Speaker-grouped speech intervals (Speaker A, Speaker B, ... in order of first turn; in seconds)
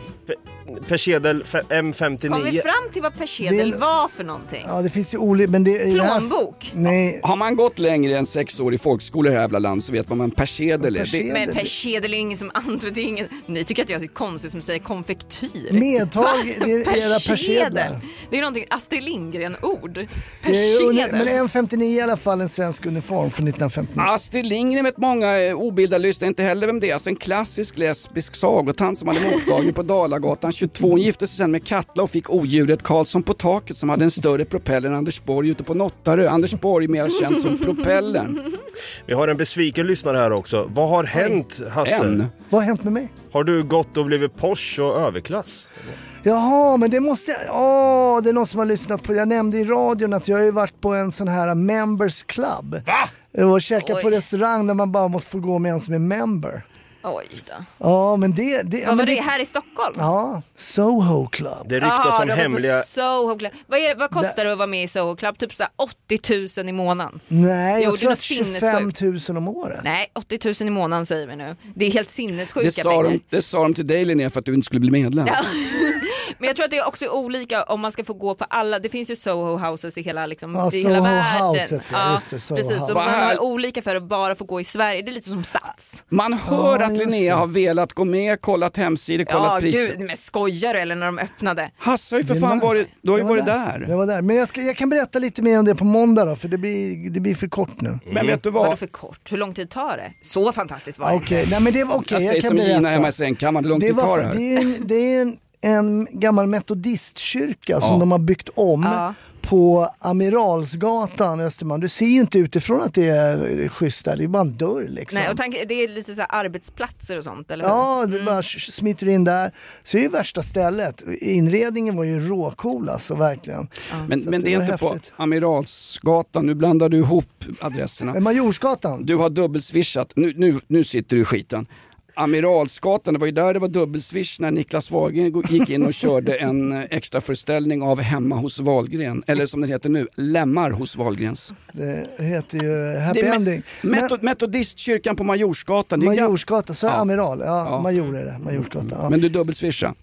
Speaker A: 0.3-2.6, 39.1-42.2, 43.3-45.7, 61.6-62.9, 98.1-98.4
Speaker B: 2.3-4.7, 5.9-6.7, 11.3-21.3, 53.8-54.1, 57.0-57.7, 58.8-60.0, 61.8-67.2, 67.8-68.9, 69.8-73.2, 75.2-86.0, 89.2-91.7, 98.5-101.5, 108.8-109.2, 115.1-118.3
Speaker C: 3.4-3.8, 4.6-7.2, 10.8-11.7, 15.7-18.0, 20.4-24.1, 42.5-43.1, 46.2-56.6, 57.8-59.2, 59.9-61.7, 67.3-69.8, 80.5-83.0, 86.4-87.4, 92.2-98.0, 101.0-103.1, 103.7-115.4, 117.6-125.0, 128.1-129.1, 141.7-144.1, 146.0-149.1
Speaker D: 7.2-11.3, 24.0-38.4, 41.8-42.3, 72.6-75.5, 82.9-83.4, 86.1-90.0, 91.8-93.9, 98.1-98.8, 102.1-104.4, 124.1-128.2, 129.0-141.5, 143.1-147.1, 147.6-147.9, 148.9-149.9